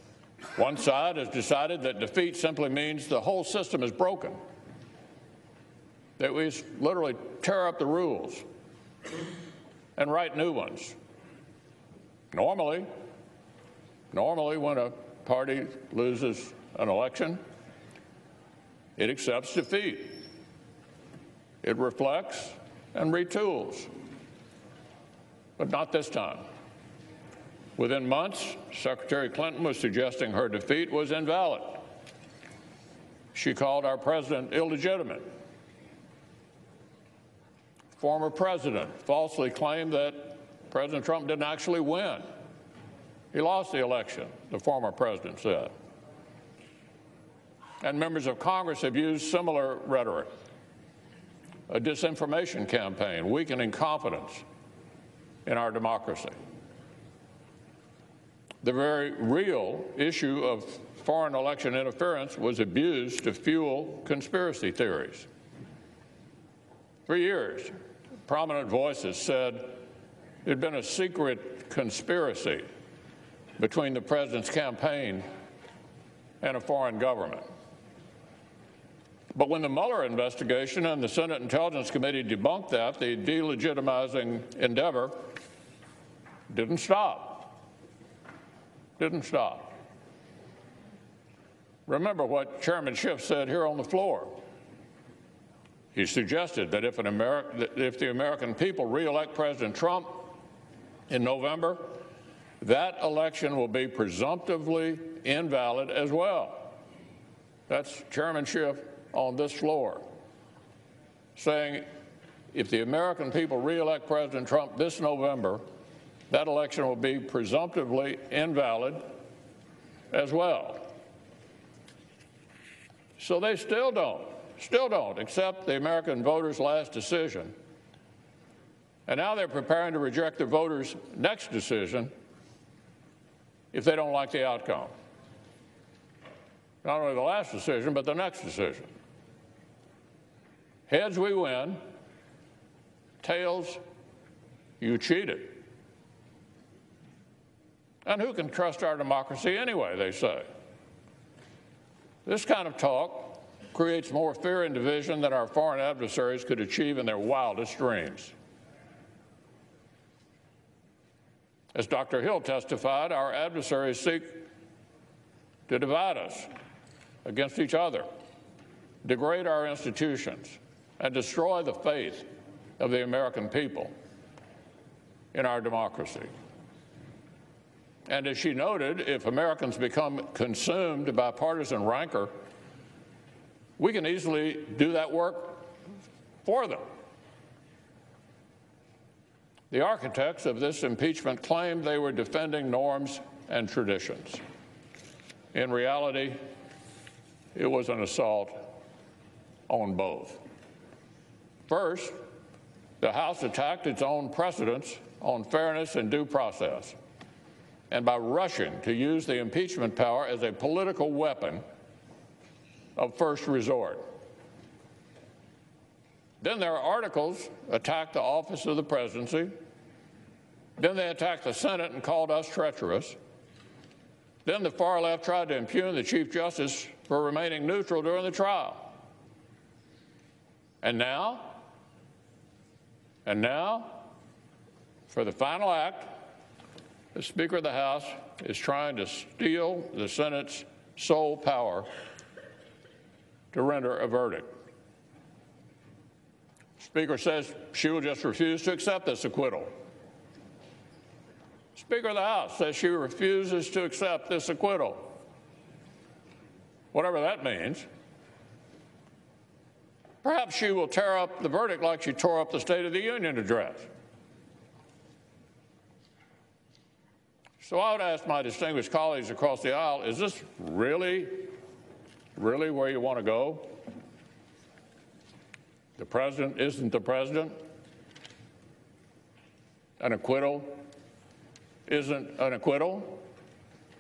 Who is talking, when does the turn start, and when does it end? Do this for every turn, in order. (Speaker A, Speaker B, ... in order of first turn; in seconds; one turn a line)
Speaker A: 0.6-4.4
Speaker A: 6.2-8.4
Speaker A: 10.0-11.0
Speaker A: 12.3-12.9
Speaker A: 14.1-17.4
Speaker A: 19.0-20.2
Speaker A: 21.6-23.9
Speaker A: 25.6-26.4
Speaker A: 27.8-31.8
Speaker A: 33.3-35.2
Speaker A: 38.0-42.2
Speaker A: 43.3-45.7
Speaker A: 47.8-50.3
Speaker A: 51.7-54.5
Speaker A: 55.5-56.4
Speaker A: 58.6-65.3
Speaker A: 67.1-67.7
Speaker A: 68.3-69.8
Speaker A: 70.5-72.7
Speaker A: 73.6-75.2
Speaker A: 76.4-77.4
Speaker A: 79.3-85.2
Speaker A: 86.5-87.6
Speaker A: 89.0-89.7
Speaker A: 91.9-94.4
Speaker A: 95.9-100.3
Speaker A: 101.1-102.0
Speaker A: 102.6-106.8
Speaker A: 107.7-110.0
Speaker A: 111.4-111.9
Speaker A: 112.5-115.6
Speaker A: 116.3-119.0
Speaker A: 120.1-120.9
Speaker A: 123.2-127.5
Speaker A: 129.1-132.1
Speaker A: 133.7-134.9
Speaker A: 136.8-138.9
Speaker A: 140.9-141.8
Speaker A: 143.2-143.8
Speaker A: 144.8-145.6
Speaker A: 148.0-150.5
Speaker A: 152.2-158.3
Speaker A: 161.7-164.4
Speaker A: 165.7-166.5
Speaker A: 167.2-168.1
Speaker A: 169.0-172.3
Speaker A: 172.8-173.9
Speaker A: 175.3-176.3
Speaker A: 178.1-182.3
Speaker A: 183.8-185.7
Speaker A: 186.4-186.8
Speaker A: 189.7-194.4
Speaker A: 195.5-196.4
Speaker A: 197.6-198.7
Speaker A: 199.7-200.4
Speaker A: 201.7-202.2
Speaker A: 203.0-207.0
Speaker A: 207.9-211.6
Speaker A: 213.0-214.0
Speaker A: 216.4-219.5
Speaker A: 220.8-223.2
Speaker A: 224.4-229.0
Speaker A: 230.8-231.6
Speaker A: 233.2-234.0
Speaker A: 235.1-236.2
Speaker A: 237.1-241.9
Speaker A: 243.5-244.5
Speaker A: 246.8-249.7
Speaker A: 251.8-255.1
Speaker A: 256.9-257.9
Speaker A: 260.2-263.9
Speaker A: 267.6-271.5
Speaker A: 272.4-273.8
Speaker A: 276.0-277.6
Speaker A: 280.0-280.8
Speaker A: 281.9-283.2